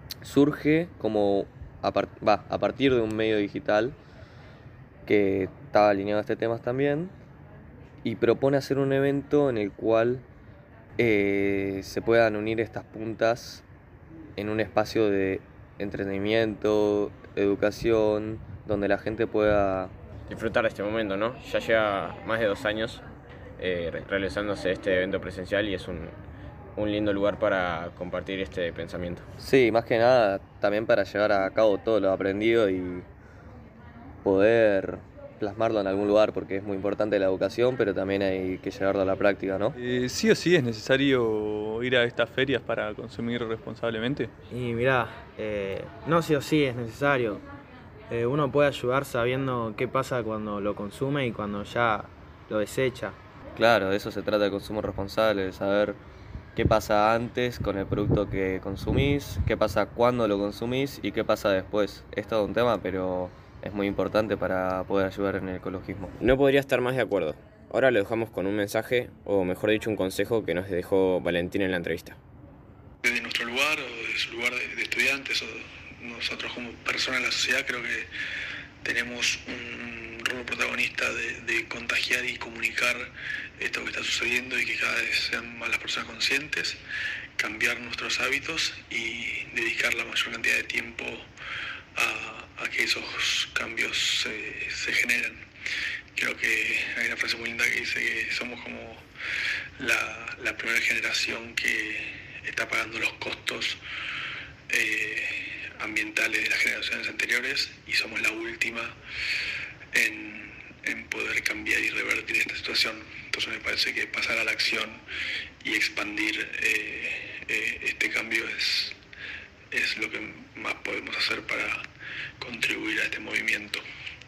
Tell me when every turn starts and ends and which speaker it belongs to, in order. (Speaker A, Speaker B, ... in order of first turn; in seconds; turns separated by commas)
Speaker A: 0.2-4.0, Speaker A: 5.0-7.1, Speaker A: 8.0-10.2, Speaker A: 11.0-13.6, Speaker A: 14.4-19.9, Speaker B: 20.3-23.0, Speaker B: 23.6-26.1, Speaker B: 26.8-29.2, Speaker A: 29.4-33.0, Speaker A: 34.2-39.7, Speaker C: 39.8-44.3, Speaker D: 44.5-47.4, Speaker D: 48.1-53.2, Speaker A: 53.5-56.0, Speaker A: 56.5-66.2, Speaker B: 66.2-72.2, Speaker E: 73.0-78.1, Speaker E: 78.8-86.8, Speaker E: 87.4-91.2, Speaker E: 92.0-95.4, Speaker E: 96.1-99.0, Speaker E: 99.8-103.8, Speaker E: 104.7-108.9, Speaker E: 109.9-115.0, Speaker E: 115.6-119.0, Speaker E: 119.7-121.8, Speaker E: 122.4-123.8